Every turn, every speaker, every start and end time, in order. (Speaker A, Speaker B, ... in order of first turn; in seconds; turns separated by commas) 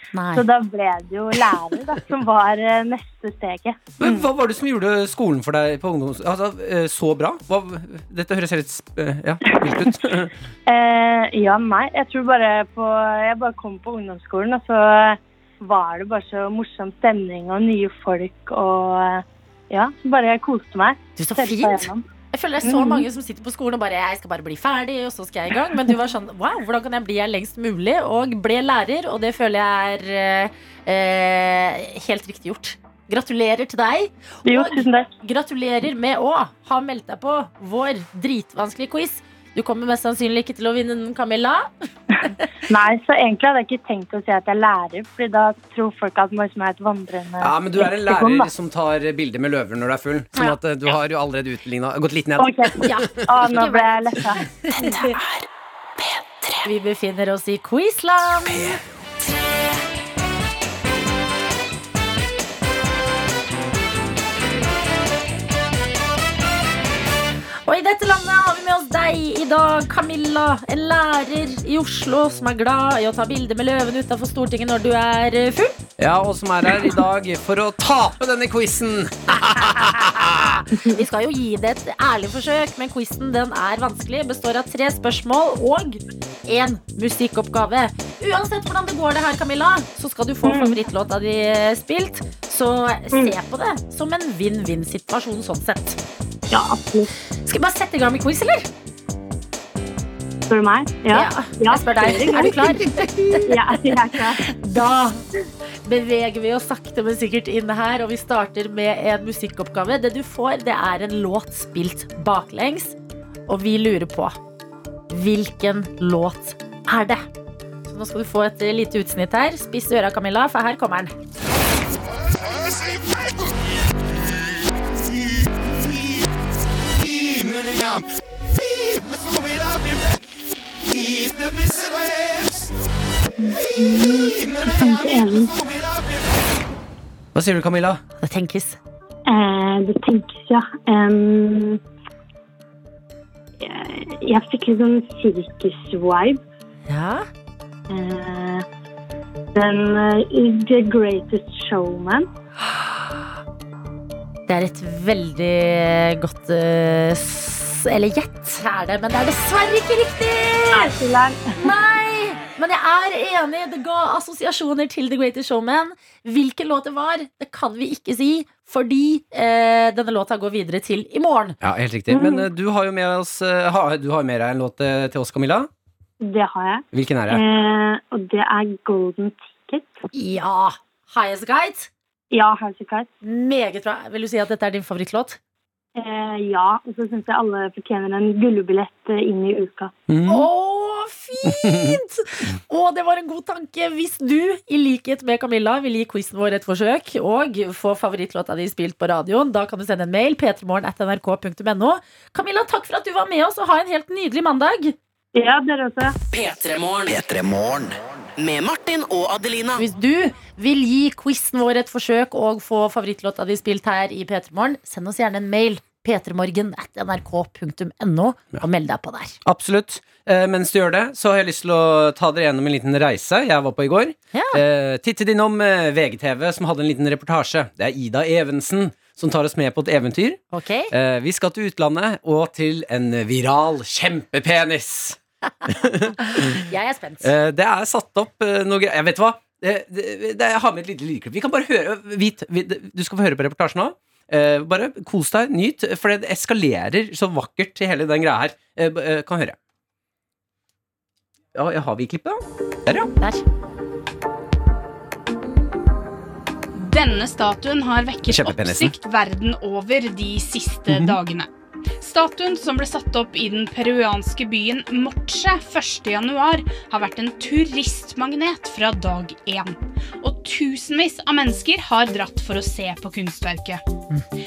Speaker A: 0.1-0.4, Speaker B: 0.3-4.2, Speaker C: 4.0-10.3, Speaker B: 10.7-22.0, Speaker A: 21.2-41.7, Speaker B: 22.6-23.0, Speaker B: 34.5-35.1, Speaker B: 42.7-48.5, Speaker C: 47.4-53.3, Speaker B: 52.4-54.4, Speaker A: 52.8-55.2, Speaker D: 54.7-55.5, Speaker D: 56.0-56.6, Speaker A: 56.6-58.8, Speaker D: 58.5-58.8, Speaker A: 67.7-75.7, Speaker C: 76.0-80.7, Speaker A: 79.6-96.0, Speaker B: 90.4-90.8, Speaker B: 96.5-97.1, Speaker A: 97.4-98.7, Speaker B: 100.5-104.4, Speaker A: 101.1-103.8, Speaker A: 104.4-105.2, Speaker A: 105.8-113.0, Speaker A: 113.5-114.4, Speaker A: 115.1-117.2, Speaker A: 117.8-121.1, Speaker B: 133.4-135.6, Speaker C: 137.3-138.0, Speaker A: 138.2-138.8, Speaker B: 139.2-141.8, Speaker B: 143.6-146.4, Speaker A: 146.9-147.2, Speaker B: 147.9-148.6, Speaker B: 149.6-152.3, Speaker A: 154.5-160.9, Speaker B: 160.7-161.7, Speaker A: 161.6-171.6, Speaker C: 171.6-175.7, Speaker B: 172.1-172.4, Speaker B: 176.2-179.9, Speaker C: 176.9-177.4, Speaker A: 180.1-181.9, Speaker B: 182.3-183.1, Speaker A: 183.2-185.4, Speaker B: 185.9-189.9, Speaker C: 190.1-190.5, Speaker A: 190.3-204.9, Speaker C: 191.4-192.0, Speaker B: 205.3-206.1, Speaker D: 206.3-209.8, Speaker A: 209.8-219.4, Speaker C: 219.4-236.6, Speaker A: 224.3-224.6, Speaker A: 230.5-230.9, Speaker A: 236.2-237.3, Speaker C: 237.2-249.6, Speaker C: 251.5-253.1, Speaker E: 256.8-273.8, Speaker C: 258.3-258.9, Speaker C: 260.9-261.2